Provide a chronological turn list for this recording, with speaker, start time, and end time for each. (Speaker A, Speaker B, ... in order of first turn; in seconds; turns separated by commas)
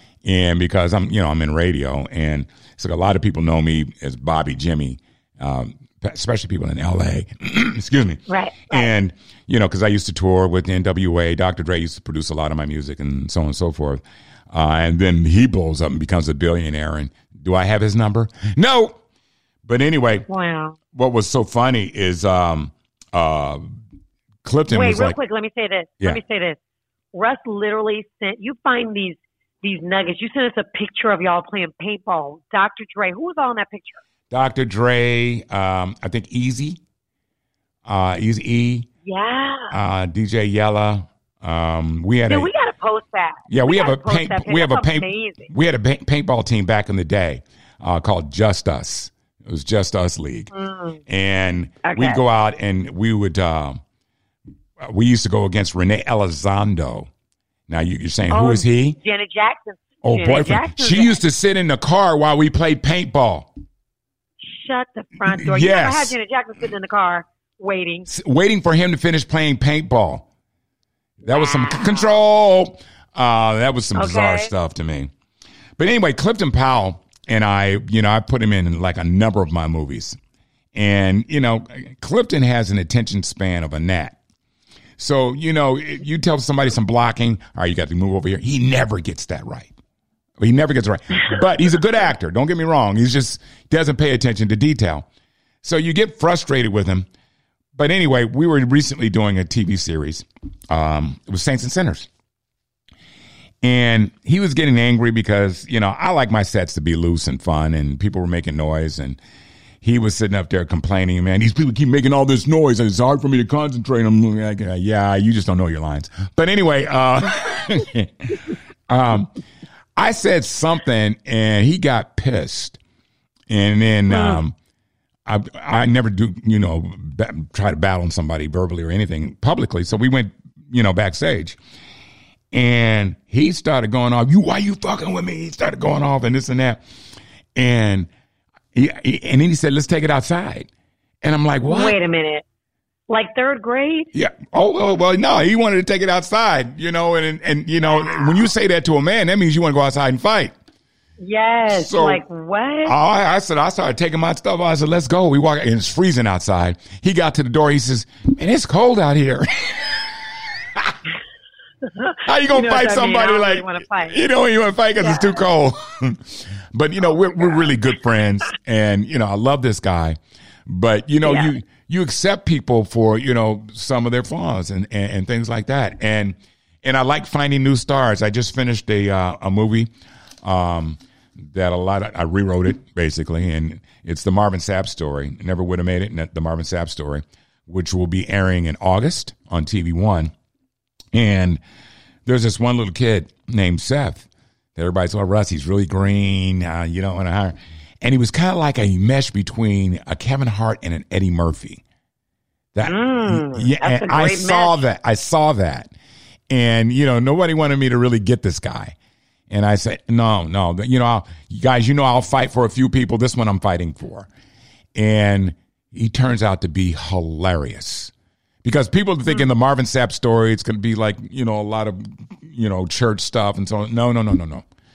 Speaker A: 0.2-19.0, Speaker B: 8.3-8.9, Speaker A: 19.6-20.3, Speaker B: 20.3-20.8, Speaker A: 20.9-23.6, Speaker A: 24.4-25.2, Speaker B: 24.7-26.6, Speaker B: 27.1-34.0, Speaker A: 34.3-36.8, Speaker A: 37.9-38.9, Speaker B: 39.0-39.7, Speaker A: 39.7-42.5, Speaker B: 42.3-45.5, Speaker A: 43.5-50.5, Speaker B: 50.5-51.0, Speaker A: 51.1-53.8, Speaker B: 51.8-52.2, Speaker A: 54.8-57.1, Speaker A: 57.7-59.0, Speaker B: 58.3-61.2, Speaker A: 60.0-63.5, Speaker B: 64.4-68.1, Speaker A: 65.3-66.2, Speaker A: 68.1-70.3, Speaker A: 71.2-75.1, Speaker B: 71.3-72.2, Speaker B: 74.0-74.5, Speaker A: 75.8-80.2, Speaker A: 80.8-84.2, Speaker A: 85.0-89.7, Speaker A: 90.4-95.1, Speaker A: 95.6-97.1, Speaker A: 97.8-102.1, Speaker A: 103.6-109.2, Speaker A: 109.8-119.3, Speaker A: 120.0-122.8, Speaker A: 123.5-124.5, Speaker B: 124.1-124.4, Speaker A: 125.3-131.6, Speaker A: 132.5-136.8, Speaker A: 137.6-138.1, Speaker A: 138.7-140.7, Speaker A: 141.2-142.0, Speaker B: 141.7-142.4, Speaker B: 143.1-144.1, Speaker A: 144.1-150.5, Speaker B: 147.8-148.5, Speaker B: 151.2-153.0, Speaker A: 151.8-152.2, Speaker A: 152.9-160.1, Speaker B: 161.8-164.2, Speaker A: 162.2-179.9, Speaker B: 165.0-165.4, Speaker B: 167.1-167.7, Speaker B: 171.2-171.5, Speaker A: 180.4-190.3, Speaker A: 191.1-191.6, Speaker A: 192.3-201.8, Speaker A: 202.7-205.9, Speaker B: 202.8-204.8, Speaker A: 206.5-208.9, Speaker A: 209.5-214.3, Speaker A: 214.9-218.1, Speaker A: 218.6-224.7